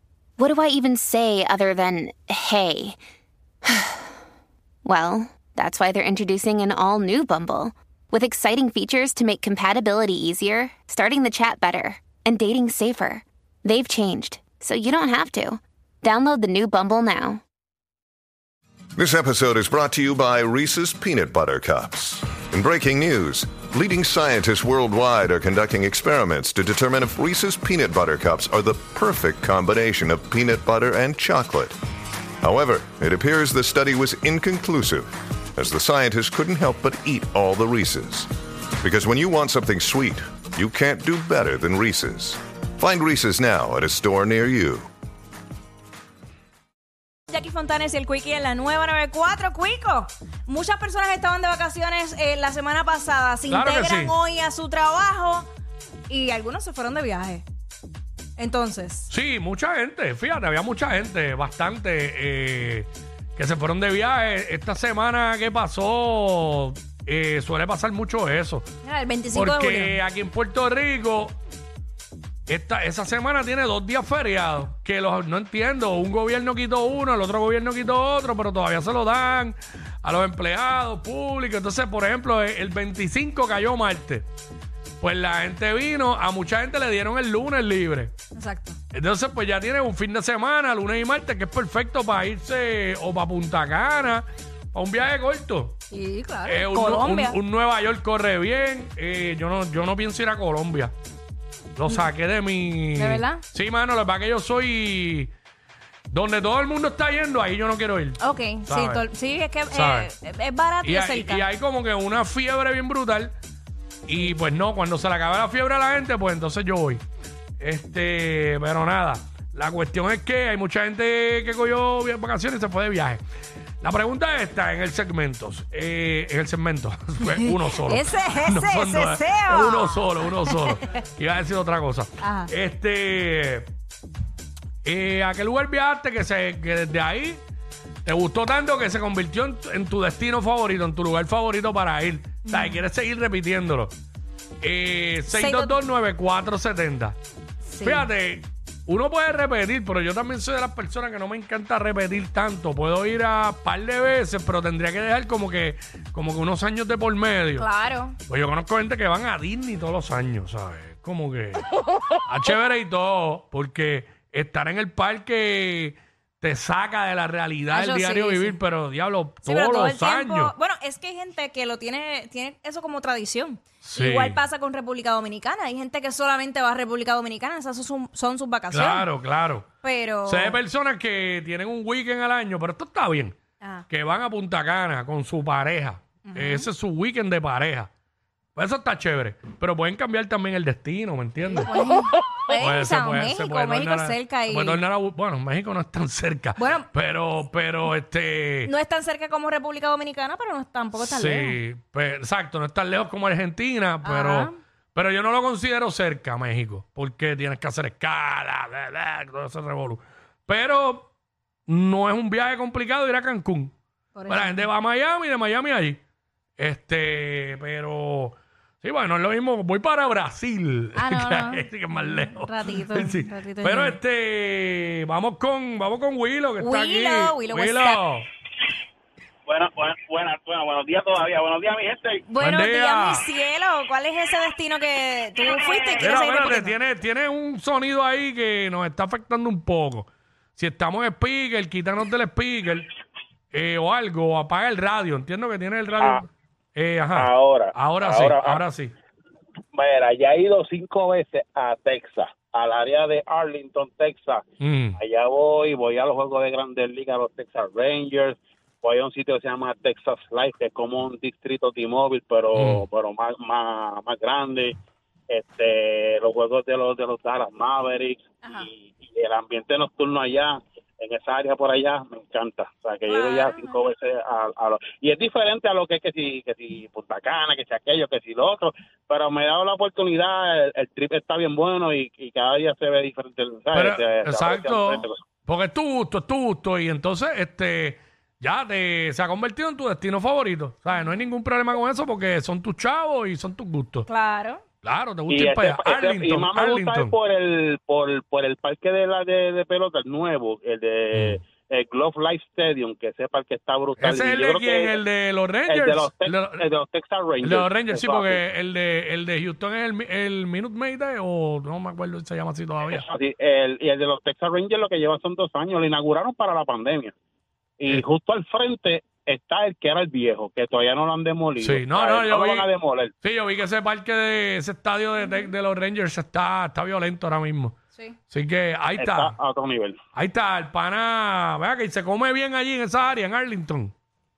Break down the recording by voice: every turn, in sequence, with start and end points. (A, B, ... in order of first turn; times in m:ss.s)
0:00.4-0:03.0 A
0:03.6-0:04.1 A
0:04.8-0:17.4 A
0:19.0-0:31.7 B
0:32.4-0:38.3 B
0:38.8-0:44.9 B
0:47.3-0:55.5 C
0:53.5-0:54.2 D
0:56.1-0:57.4 C
0:58.4-0:59.1 C
0:59.1-1:08.7 D
1:08.8-1:10.0 C
1:09.3-1:11.4 D
1:12.5-1:24.3 D
1:25.0-1:28.1 D
1:28.3-1:28.8 C
1:28.9-1:35.8 D
1:35.9-1:37.4 C
1:36.4-1:40.9 D
1:41.8-1:45.3 D
1:41.8-1:42.1 C
1:42.9-1:43.4 C
1:46.1-1:49.0 D
1:48.2-1:51.5 C
1:49.7-1:50.1 D
1:50.8-1:53.4 D
1:54.0-1:57.0 D
1:57.6-2:03.2 D
2:03.8-2:13.7 D
2:07.2-2:10.8 C
2:12.2-2:12.5 C
2:14.8-2:17.4 D
2:18.0-2:23.9 D
2:22.5-2:22.8 C
2:24.6-2:27.2 D
2:25.3-2:25.8 C
2:27.6-2:28.1 C
2:27.8-2:37.7 D
2:37.6-2:38.2 C
2:38.3-2:41.6 D
2:42.2-2:50.5 D
2:47.7-2:48.6 C
2:49.4-2:59.1 C
2:53.8-2:54.4 D
2:58.7-2:59.7 D
2:59.8-3:00.6 C
3:00.2-3:03.4 D
3:03.6-3:03.8 C
3:03.9-3:07.9 D
3:06.2-3:06.7 C
3:08.5-3:11.7 D
3:11.5-3:14.8 C
3:12.5-3:18.7 D
3:16.6-3:16.9 C
3:18.6-3:21.6 C
3:21.0-3:31.1 D
3:24.0-3:24.5 C
3:31.7-3:33.7 D
3:34.1-3:34.6 C
3:34.3-3:36.0 D
3:36.6-3:48.3 D
3:40.9-3:44.0 C
3:46.6-3:48.0 C
3:49.4-3:52.2 E
3:52.3-3:56.7 C
3:52.4-3:53.2 D
3:55.4-3:56.2 E
3:56.0-4:02.9 D
4:03.5-4:08.9 D
4:07.1-4:08.6 E
4:09.7-4:14.4 E
4:14.6-4:15.0 D
4:15.0-4:24.7 E
4:22.5-4:22.8 D
4:25.3-4:45.2 E
4:28.4-4:28.7 C
4:33.0-4:33.8 C
4:43.7-4:54.1 D
4:54.1-4:54.6 C
4:54.8-4:57.1 D
4:55.3-5:05.0 E
5:01.1-5:01.4 D
5:04.0-5:06.6 D
5:05.7-5:08.4 E
5:07.4-5:13.0 D
5:12.9-5:17.1 E
5:17.8-5:23.1 E
5:21.6-5:27.8 D
5:28.3-5:29.3 D
5:29.0-5:30.0 E
5:30.1-5:33.9 D